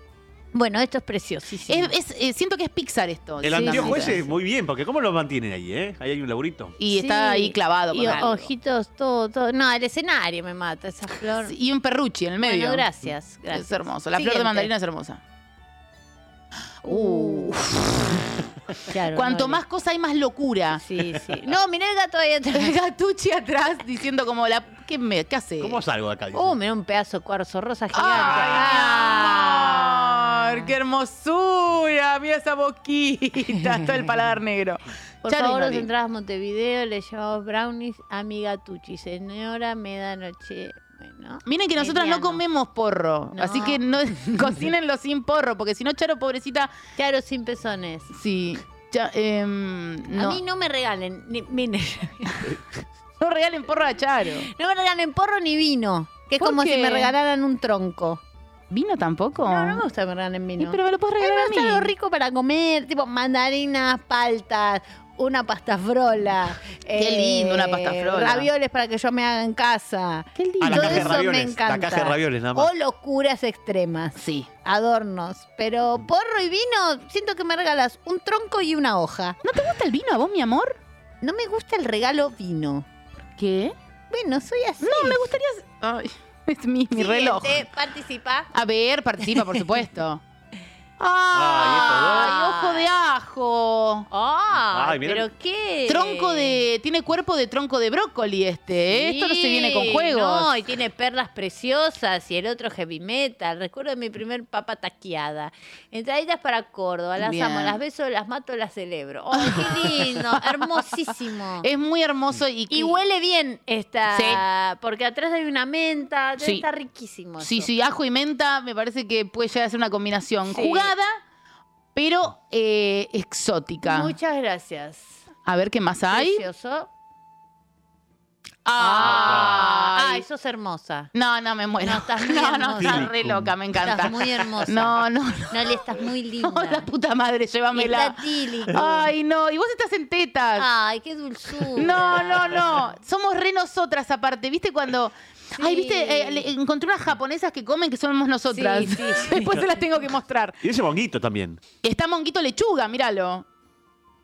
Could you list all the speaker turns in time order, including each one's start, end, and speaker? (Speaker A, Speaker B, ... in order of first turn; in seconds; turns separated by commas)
Speaker A: 0.5-1.9, Speaker B: 1.7-4.3, Speaker C: 3.4-6.8, Speaker A: 3.5-4.3, Speaker B: 6.8-8.5, Speaker A: 6.9-11.5, Speaker B: 11.4-12.9, Speaker A: 12.4-14.7, Speaker B: 13.5-15.2, Speaker B: 16.8-18.2, Speaker A: 16.9-17.6, Speaker A: 18.9-19.6, Speaker B: 19.1-20.8, Speaker A: 20.8-22.8, Speaker B: 22.5-25.8, Speaker C: 25.6-26.6, Speaker A: 26.3-30.7, Speaker B: 27.9-35.9, Speaker C: 28.2-28.5, Speaker A: 35.2-42.4, Speaker B: 41.5-46.7, Speaker A: 43.3-43.8, Speaker A: 47.0-48.1, Speaker B: 48.1-50.4, Speaker A: 50.1-52.5, Speaker B: 53.2-54.5, Speaker A: 54.5-58.2, Speaker B: 56.4-57.1, Speaker B: 58.7-59.9, Speaker A: 59.4-79.4, Speaker B: 60.6-61.9, Speaker B: 66.9-68.5, Speaker B: 70.4-71.2, Speaker C: 70.6-72.7, Speaker B: 74.2-74.5, Speaker B: 79.4-80.8, Speaker A: 81.2-82.9, Speaker B: 83.4-83.8, Speaker A: 84.1-85.2, Speaker B: 84.8-87.7, Speaker A: 86.9-88.5, Speaker B: 88.5-90.2, Speaker B: 91.0-94.1, Speaker C: 91.3-92.3, Speaker A: 92.0-92.9, Speaker A: 94.1-96.6, Speaker C: 94.7-95.3, Speaker B: 95.9-100.6, Speaker A: 98.9-111.7, Speaker B: 107.2-107.8, Speaker B: 109.4-110.2, Speaker B: 111.6-113.0, Speaker A: 112.7-117.7, Speaker B: 114.1-114.4, Speaker B: 116.4-116.7, Speaker B: 117.4-121.2, Speaker A: 120.5-120.9, Speaker B: 122.0-124.2, Speaker A: 123.8-125.2, Speaker B: 125.5-126.5, Speaker A: 126.1-126.9, Speaker B: 128.7-130.2, Speaker A: 128.8-131.1, Speaker C: 129.0-129.6, Speaker B: 131.1-135.8, Speaker A: 131.8-133.1, Speaker C: 132.8-133.5, Speaker A: 133.8-136.9, Speaker B: 136.4-140.7, Speaker A: 137.7-139.1, Speaker A: 140.6-142.7, Speaker B: 141.8-150.6, Speaker A: 145.6-146.5, Speaker A: 148.5-149.8, Speaker C: 150.6-151.6, Speaker B: 151.8-153.4